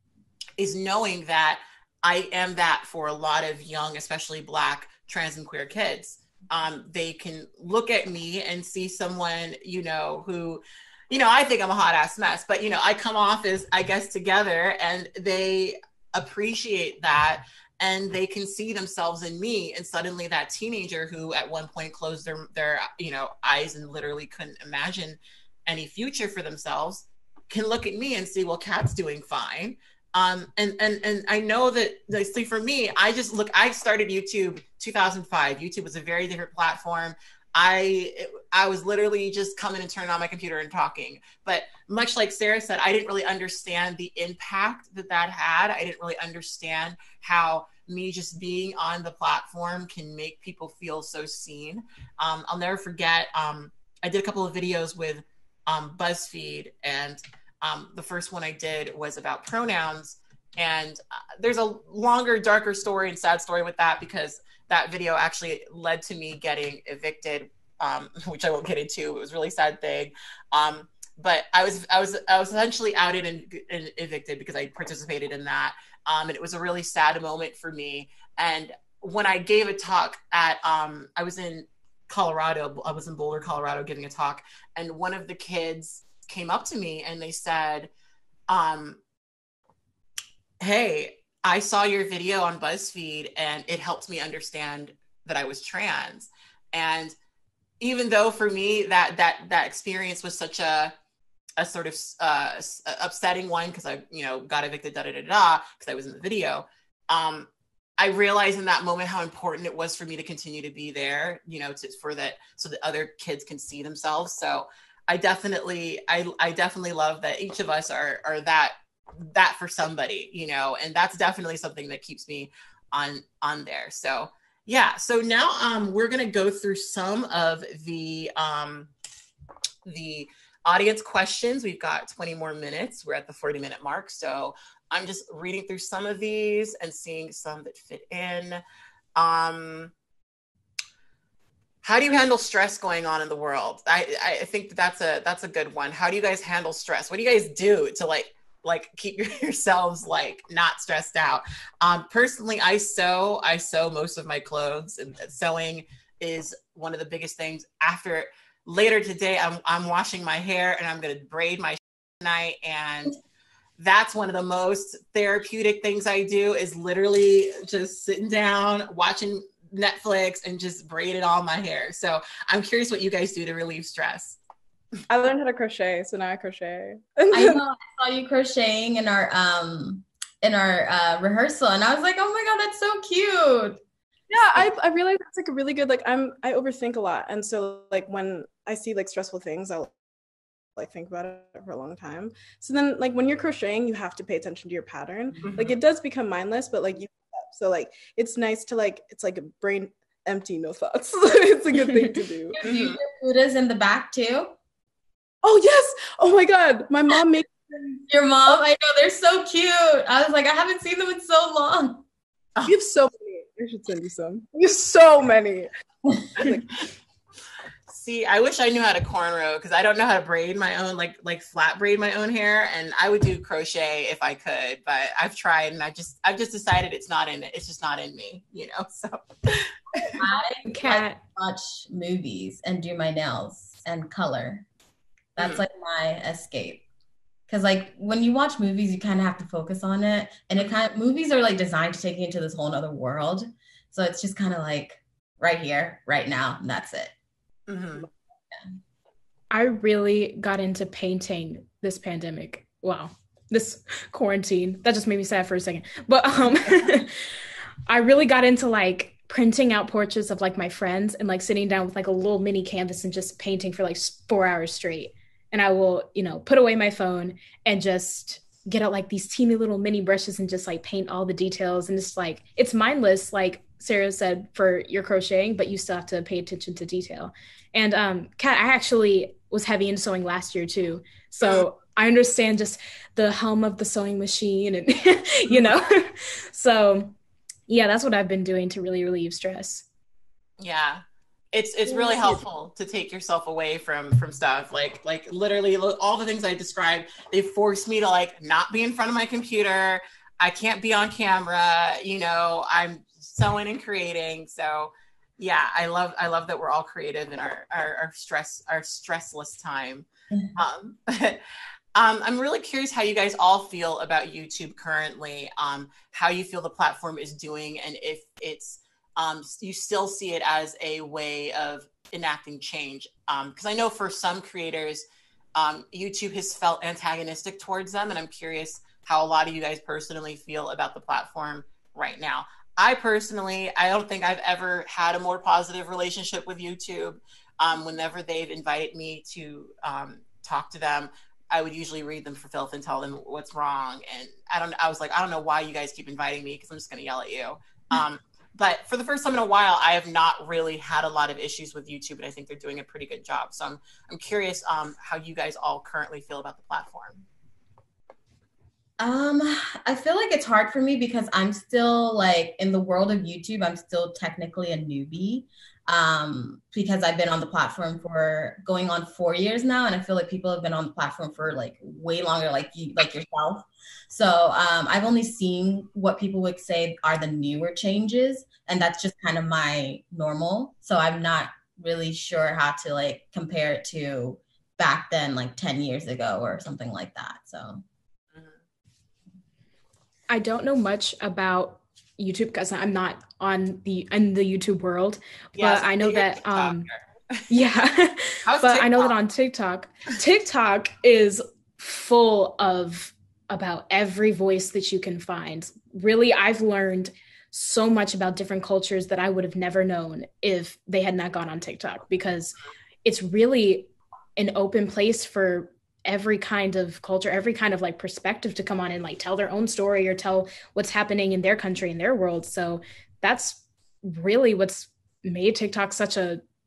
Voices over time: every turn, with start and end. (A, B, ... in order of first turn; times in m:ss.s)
0:00.6-1:27.9 A
1:28.5-1:29.0 A
1:30.6-1:37.2 A
1:37.8-1:40.9 A
1:41.6-2:08.9 A
2:09.8-2:18.6 A
2:19.2-2:19.9 A
2:21.8-2:43.2 A
2:43.8-2:54.4 A
2:55.1-2:57.6 B
2:57.3-3:03.8 C
3:04.3-3:09.9 B
3:10.8-3:22.6 B
3:15.4-3:15.7 A
3:22.5-3:24.6 C
3:22.6-3:23.0 A
3:25.4-3:28.1 B
3:28.1-3:32.0 C
3:32.7-3:35.7 B
3:36.3-3:36.8 B
3:37.9-3:50.2 A
3:50.2-3:54.7 C
3:50.6-3:51.2 D
3:55.4-3:56.8 C
3:55.4-3:55.6 A
3:57.5-4:07.1 C
4:07.7-4:08.1 A
4:09.5-4:17.2 D
4:17.9-4:47.2 D
4:47.7-4:49.8 D
4:50.6-5:11.4 A
4:51.9-4:52.4 B
5:12.0-5:57.2 A
5:59.0-6:27.8 C
6:28.3-6:28.6 A
6:30.3-6:36.9 D
6:35.6-6:37.4 A
6:37.5-7:06.4 D
6:38.4-6:39.1 A